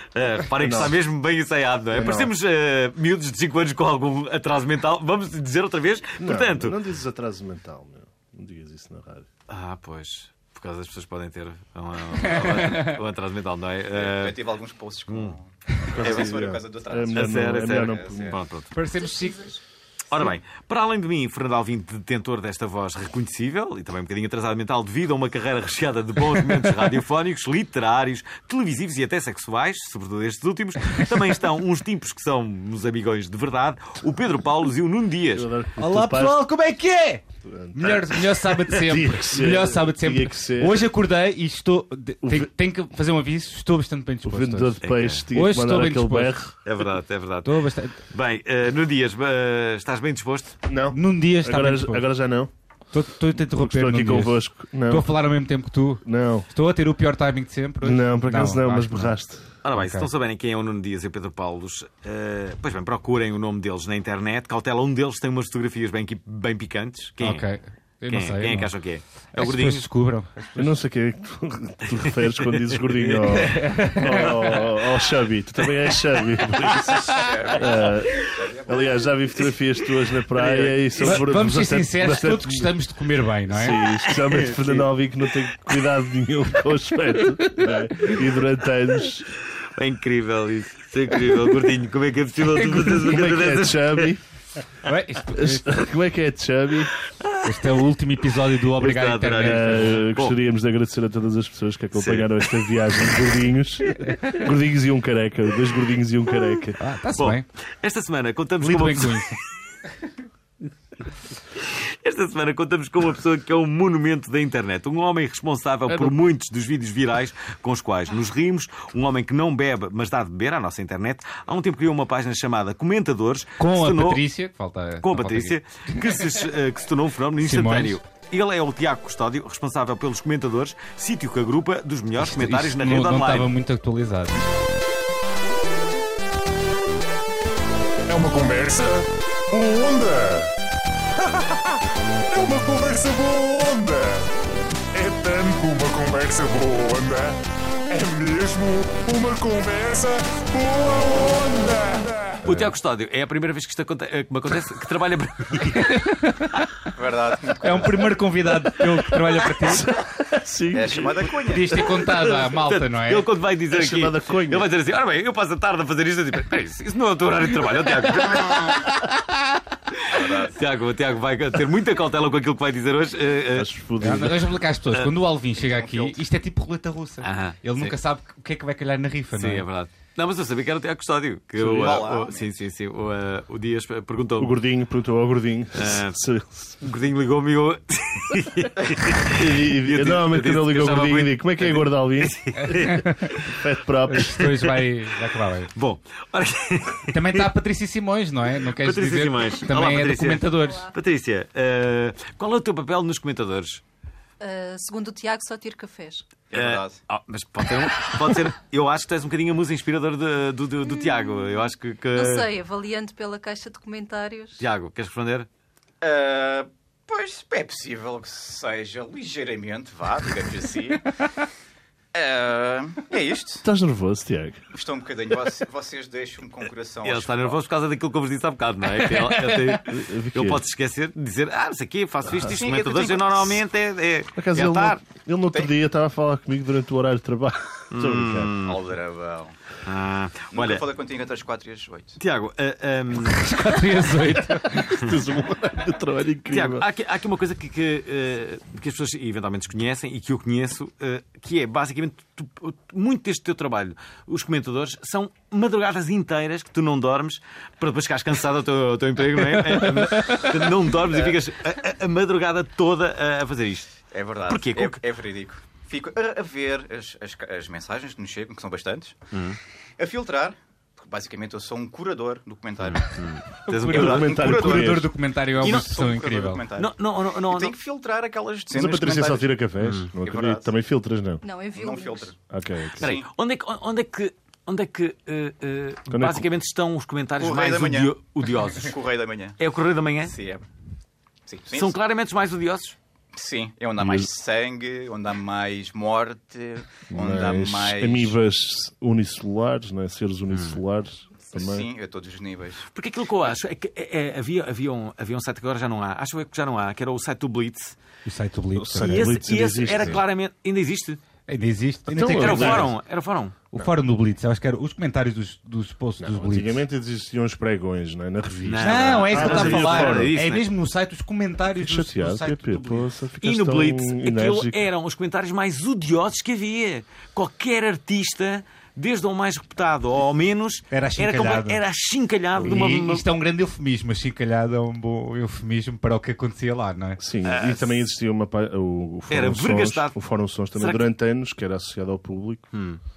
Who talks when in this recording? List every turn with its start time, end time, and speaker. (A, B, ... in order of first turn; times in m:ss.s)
0:00.2-0:06.8 A
0:00.5-0:01.0 B
0:01.9-0:02.3 B
0:06.2-0:09.3 B
0:09.5-0:14.4 A
0:12.2-0:13.0 C
0:14.0-0:18.4 D
0:15.1-0:15.4 A
0:15.9-0:18.4 B
0:17.2-0:18.7 A
0:18.7-0:19.6 C
0:20.1-0:35.5 A
0:35.3-0:36.4 B
0:35.8-0:46.4 C
0:37.4-0:38.1 B
0:38.7-0:40.8 B
0:42.2-0:42.5 B
0:44.2-0:46.6 B
0:44.8-0:45.2 A
0:46.6-0:50.6 A
0:47.4-0:48.0 C
0:50.7-0:52.5 B
0:50.9-0:52.0 C
0:52.9-0:59.2 C
0:53.3-0:55.1 B
0:56.0-0:56.5 B
0:57.8-0:59.5 B
0:59.6-1:07.5 A
0:59.7-1:00.1 C
1:07.2-1:08.7 C
1:08.1-1:09.9 A
1:09.3-1:10.8 C
1:10.6-1:22.7 B
1:12.1-1:13.4 A
1:13.4-1:14.7 C
1:16.9-1:18.9 D
1:20.4-1:21.1 A
1:21.0-1:23.8 C
1:23.5-1:29.3 B
1:23.8-1:24.9 A
1:29.8-1:34.1 A
1:32.8-1:34.2 B
1:34.8-1:35.7 C
1:35.3-1:37.0 B
1:37.4-1:37.7 A
1:37.4-1:40.0 C
1:38.8-1:40.4 A
1:39.4-1:46.8 B
1:41.9-1:42.9 A
1:44.1-1:44.4 C
1:46.8-1:47.4 C
1:47.2-1:49.6 A
1:48.6-1:49.4 C
1:51.6-2:04.2 A
1:55.9-1:56.2 B
2:03.6-2:06.2 C
2:05.0-2:13.5 A
2:07.4-2:08.0 C
2:12.2-2:14.4 C
2:18.1-2:20.5 E
2:21.2-2:21.8 E
2:22.3-2:24.3 E
2:24.9-2:32.4 E
2:32.4-2:35.9 A
2:32.5-2:32.7 C
2:35.7-2:36.7 C
2:36.9-2:38.1 D
2:37.6-2:39.9 C
2:39.6-2:41.4 B
2:40.7-2:41.9 D
2:41.5-2:43.3 C
2:42.2-2:49.1 A
2:43.7-2:44.7 B
2:49.9-2:53.7 A
2:50.1-2:50.6 D
2:53.6-2:54.6 B
2:54.0-2:59.7 C
2:55.6-2:56.2 D
2:57.2-2:57.9 A
2:59.3-3:04.5 A
3:01.6-3:02.1 B
3:01.7-3:02.4 D
3:04.4-3:06.8 B
3:05.8-3:06.2 A
3:06.8-3:13.6 A
3:09.2-3:12.8 B
3:12.6-3:13.3 C
3:13.5-3:14.4 B
3:14.1-3:15.7 C
3:14.4-3:14.8 A
3:15.7-3:17.5 A
3:17.1-3:20.9 C
3:18.6-3:23.8 A
3:20.6-3:20.9 F
3:24.4-3:26.3 F
3:26.5-3:27.0 D
3:26.5-3:32.5 A
3:30.9-3:34.6 F
3:34.6-3:35.5 A
3:36.0-3:41.2 D
3:42.1-3:43.7 D
3:43.6-3:44.6 B
3:44.7-3:47.6 D
3:47.0-3:55.0 A
3:49.0-3:49.7 C
3:49.8-3:50.6 B
3:52.4-3:53.6 D
3:54.4-3:58.6 B
3:57.9-3:58.8 A
3:58.5-3:59.6 D
3:59.8-4:00.8 A
4:00.5-4:02.2 D
4:02.2-4:03.6 A
4:03.4-4:05.1 C
4:04.8-4:06.9 B
4:06.5-4:23.9 A
4:19.6-4:20.5 C
4:21.1-4:21.4 D
4:24.1-4:29.2 D
4:24.5-4:25.0 A
4:29.3-4:29.6 A
4:30.0-4:33.2 D
4:32.9-4:34.9 A
4:33.6-4:36.6 C
4:33.9-4:35.1 B
4:34.0-4:35.0 D
4:35.6-4:39.5 D
4:35.6-4:36.0 A
4:36.8-4:37.8 A
4:38.7-4:41.4 B
4:39.8-4:40.1 A
4:40.2-4:40.7 D
4:41.4-4:42.3 F
4:41.8-4:43.3 D
4:42.5-4:43.1 B
4:43.0-4:49.0 A
4:46.1-4:46.5 B
4:47.4-4:48.1 D
4:48.8-4:49.6 D
4:49.6-4:50.4 A
4:50.2-4:50.7 D
4:51.5-4:51.9 D
4:51.7-4:53.0 A
4:53.3-4:58.3 D
4:54.0-4:54.3 B
4:57.1-5:01.9 B
5:01.5-5:02.9 D
5:02.9-5:08.0 A
5:08.2-5:09.6 C
5:08.8-5:10.2 B
5:09.0-5:11.2 A
5:11.5-5:12.9 C
5:12.1-5:13.0 B
5:12.2-5:13.6 A
5:13.7-5:16.8 C
5:16.2-5:20.4 B
5:18.6-5:20.7 A
5:18.8-5:23.1 C
5:21.8-5:24.9 B
5:23.4-5:33.2 A
5:30.9-5:31.8 C
5:32.6-5:32.8 B
5:32.6-5:37.2 C
5:37.2-5:42.8 B
5:37.4-5:38.0 A
5:39.3-5:41.1 A
5:42.7-5:43.0 A